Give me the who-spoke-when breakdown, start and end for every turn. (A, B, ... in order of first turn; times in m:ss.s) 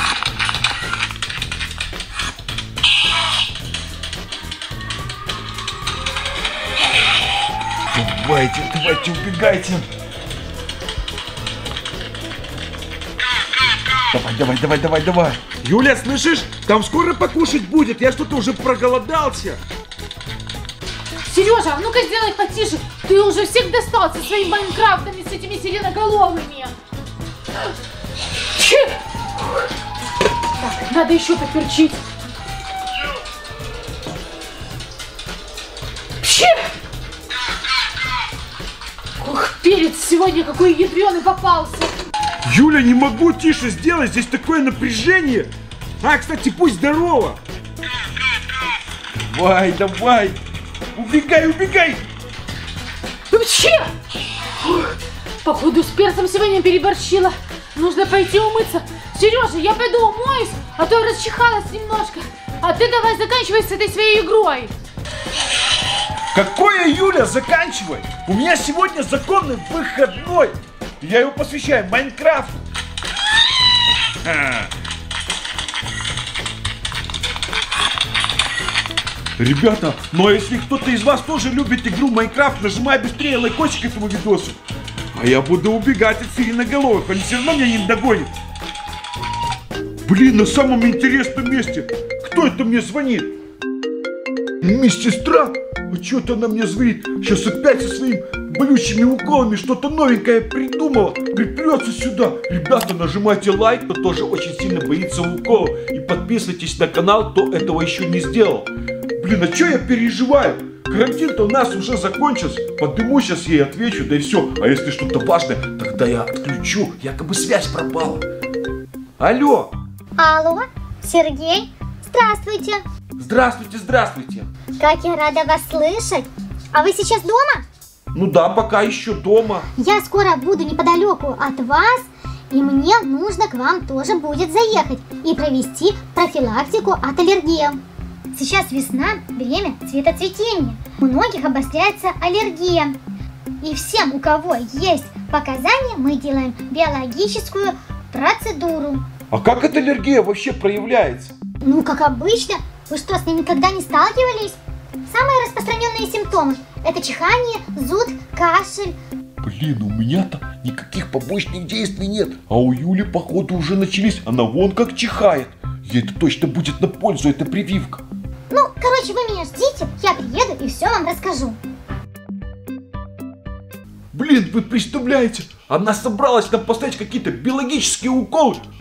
0:07.9-0:09.8 A
0:14.1-0:19.6 A
0:21.2-0:26.7 B
0:28.5-0:28.9 B
0:30.6-0:32.0 B
0:36.2-0:36.7 B
0:39.2-0:41.9 B
0:42.4-0:47.4 A
0:49.3-0:50.4 A
0:50.9-0:52.0 A
0:53.3-0:53.9 B
0:55.4-1:04.7 B
1:06.3-1:12.6 A
1:14.2-1:14.7 A
1:19.4-1:24.6 A
1:25.1-1:28.3 A
1:30.0-1:33.3 A
1:34.6-1:58.2 A
1:59.2-1:59.7 A
2:00.2-2:02.8 C
2:03.2-2:04.5 A
2:04.8-2:07.6 C
2:08.1-2:09.7 A
2:09.8-2:17.8 C
2:18.3-2:23.0 C
2:23.6-2:29.0 C
2:29.3-2:31.3 A
2:31.6-2:38.9 C
2:39.4-2:48.0 A
2:48.5-2:51.6 C
2:54.1-2:58.6 A